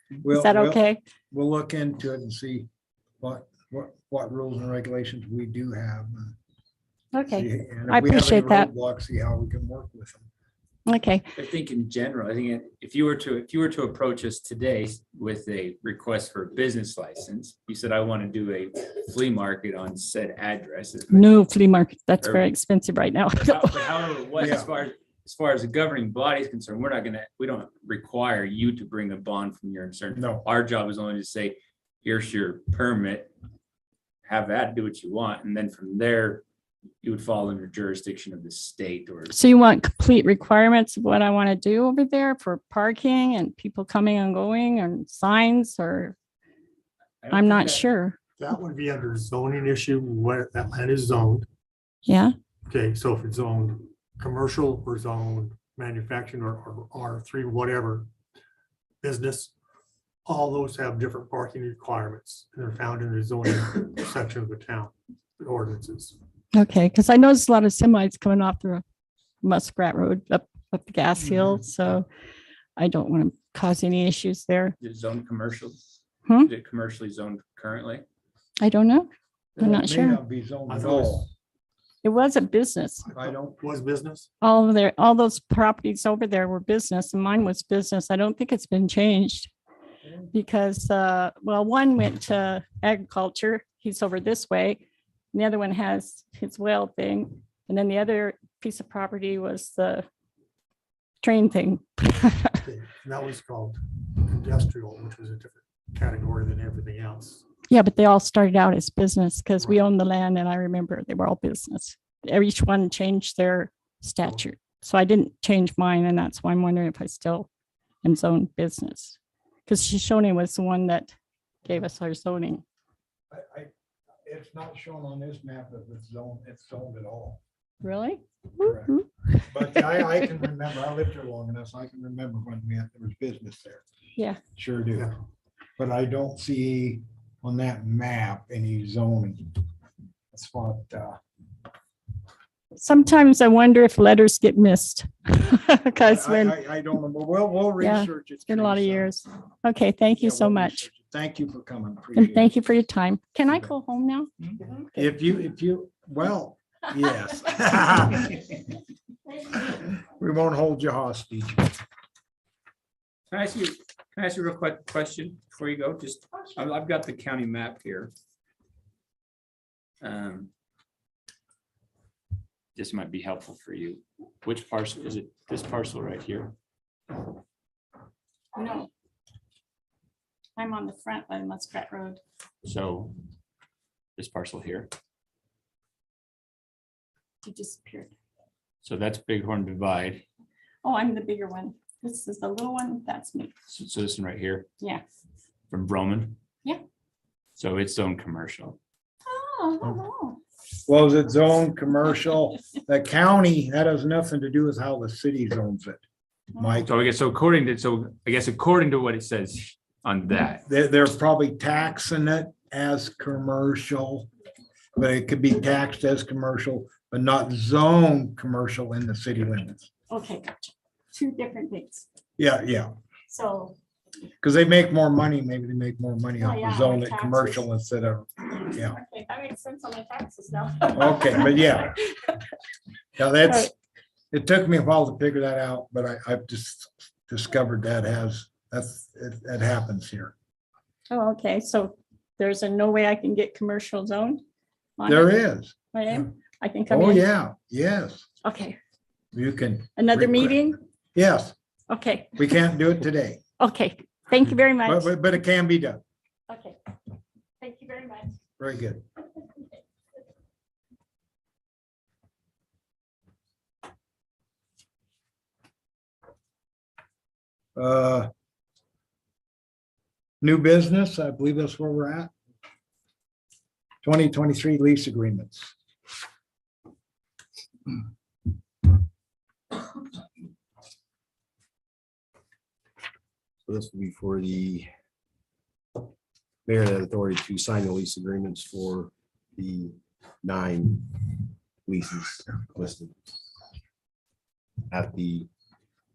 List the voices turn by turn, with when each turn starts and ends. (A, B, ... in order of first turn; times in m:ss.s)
0:00.2-0:02.7 A
0:00.3-0:01.0 B
0:03.2-0:06.4 A
0:07.1-0:08.7 B
0:07.3-0:10.3 A
0:10.9-0:11.3 B
0:11.4-0:21.4 C
0:21.1-0:24.0 B
0:23.4-0:33.3 C
0:24.4-0:24.7 A
0:30.1-0:30.5 A
0:34.2-0:36.4 C
0:37.0-0:39.4 C
0:39.3-0:46.2 B
0:47.2-0:47.9 C
0:47.3-0:48.2 B
0:48.4-0:51.5 D
0:52.0-0:52.3 B
0:52.7-0:58.1 D
0:59.0-0:59.5 D
1:00.3-1:06.2 D
1:06.5-1:08.8 B
1:09.4-1:12.1 B
1:11.3-1:11.6 A
1:12.8-1:14.8 B
1:14.8-1:15.8 C
1:16.4-1:18.0 C
1:18.6-1:20.2 B
1:19.6-1:21.3 A
1:20.7-1:21.3 D
1:22.0-1:23.1 B
1:23.0-1:24.3 D
1:23.1-1:23.6 A
1:24.4-1:29.5 B
1:30.3-1:40.0 B
1:41.2-1:42.6 B
1:42.6-1:47.4 D
1:47.7-1:57.5 B
1:58.0-2:02.6 B
2:03.3-2:03.7 A
2:04.2-2:07.4 A
2:07.8-2:09.5 B
2:08.6-2:08.9 A
2:09.5-2:13.8 A
2:14.6-2:15.1 A
2:15.8-2:19.6 A
2:20.3-2:21.2 A
2:22.8-2:26.6 B
2:26.0-2:29.1 A
2:27.8-2:30.8 B
2:30.2-2:32.5 A
2:32.2-2:34.3 B
2:34.9-2:38.5 A
2:39.6-2:41.8 A
2:43.3-2:48.1 C
2:50.0-2:50.5 C
2:52.8-2:56.6 C
2:58.6-2:58.9 B
3:00.6-3:02.2 B
3:02.6-3:03.2 C
3:04.2-3:04.9 C
3:07.4-3:08.1 B
3:08.8-3:10.2 C
3:10.8-3:13.5 B
3:13.7-3:14.7 C
3:15.7-3:16.4 C
3:17.6-3:18.8 C
3:19.3-3:20.4 B
3:20.8-3:26.0 A
3:26.5-3:26.9 A
3:26.8-3:30.6 C
3:30.7-3:34.3 A
3:35.0-3:39.9 A
3:40.1-3:42.1 B
3:42.4-3:42.9 A
3:43.3-3:43.8 B
3:44.4-3:49.0 A
3:46.4-3:47.6 B
3:48.5-3:52.4 B
3:50.9-3:52.0 A
3:53.2-3:53.7 A
3:54.3-4:00.3 A
4:01.1-4:04.4 B
4:05.0-4:05.4 B
4:05.1-4:06.2 A
4:05.9-4:07.3 B
4:06.9-4:08.3 A
4:08.4-4:08.8 B
4:09.3-4:11.6 A
4:10.0-4:10.8 B
4:11.9-4:12.3 B
4:12.4-4:13.4 A
4:13.6-4:15.1 B
4:14.6-4:16.0 A
4:16.5-4:16.8 B
4:17.6-4:18.4 B
4:18.6-4:19.0 A
4:27.8-4:28.3 A
4:30.4-4:32.3 A
4:34.0-4:35.7 A
4:43.7-4:44.9 E
4:46.7-4:53.2 E
4:54.9-4:55.5 E